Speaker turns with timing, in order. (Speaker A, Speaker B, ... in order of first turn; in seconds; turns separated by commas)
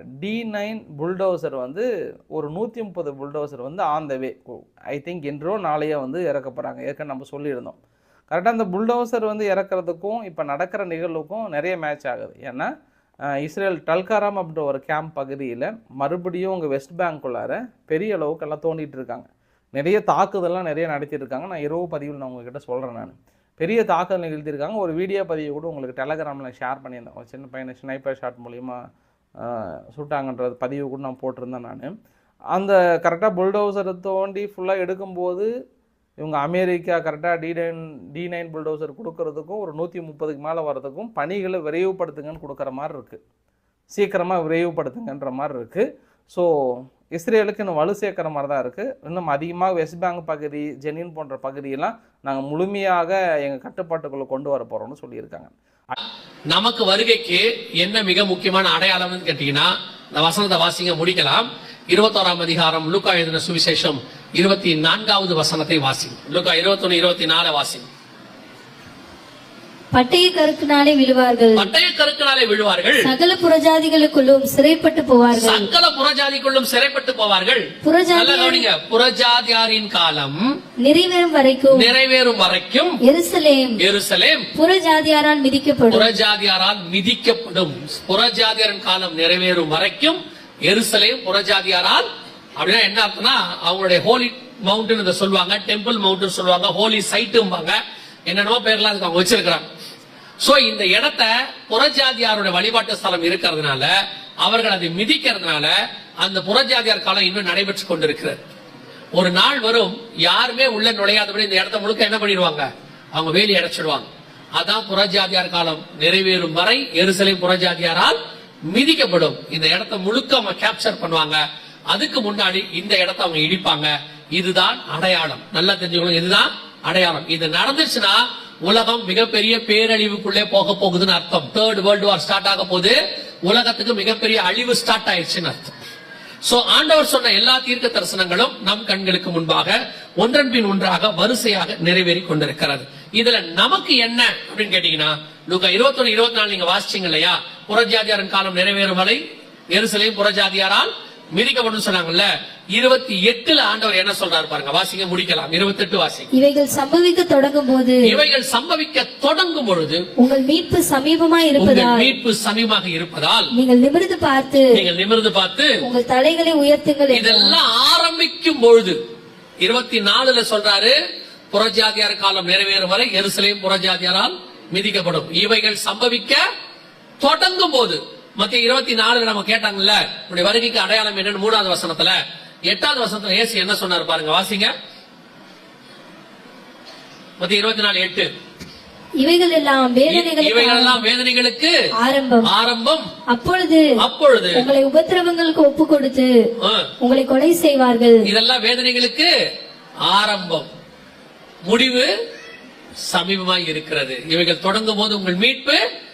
Speaker A: 0.2-7.8, Speaker A: 8.3-12.7, Speaker A: 13.4-28.8, Speaker A: 29.4-31.9, Speaker A: 32.5-35.5, Speaker A: 36.2-43.2, Speaker A: 43.9-46.5, Speaker A: 47.1-55.5, Speaker B: 56.5-67.9, Speaker C: 69.9-71.7, Speaker B: 71.5-73.1, Speaker C: 73.0-75.7, Speaker B: 75.3-80.4, Speaker C: 77.8-78.7, Speaker C: 80.8-81.9, Speaker B: 81.7-83.0, Speaker C: 83.0-83.8, Speaker B: 83.8-84.5, Speaker C: 84.5-86.1, Speaker B: 85.9-92.0, Speaker B: 92.6-99.6, Speaker B: 100.4-103.9, Speaker B: 104.4-108.4, Speaker B: 109.2-118.2, Speaker B: 118.7-135.7, Speaker B: 136.4-149.2, Speaker B: 149.7-156.3, Speaker C: 156.3-158.2, Speaker B: 158.0-160.1, Speaker C: 160.2-162.1, Speaker B: 161.6-163.5, Speaker C: 163.5-164.8, Speaker B: 164.7-165.7, Speaker C: 165.8-167.6, Speaker B: 167.1-169.0, Speaker B: 169.6-170.9, Speaker B: 171.5-176.4, Speaker B: 177.2-184.7, Speaker B: 187.4-188.3, Speaker C: 189.2-190.9, Speaker B: 190.1-191.7, Speaker C: 192.0-192.5, Speaker B: 192.4-193.1, Speaker C: 193.3-193.8, Speaker B: 194.0-194.7, Speaker C: 194.5-196.3, Speaker B: 196.6-196.9, Speaker C: 197.0-198.2, Speaker B: 198.2-199.3, Speaker B: 200.0-200.7, Speaker B: 201.7-202.1, Speaker B: 203.1-205.8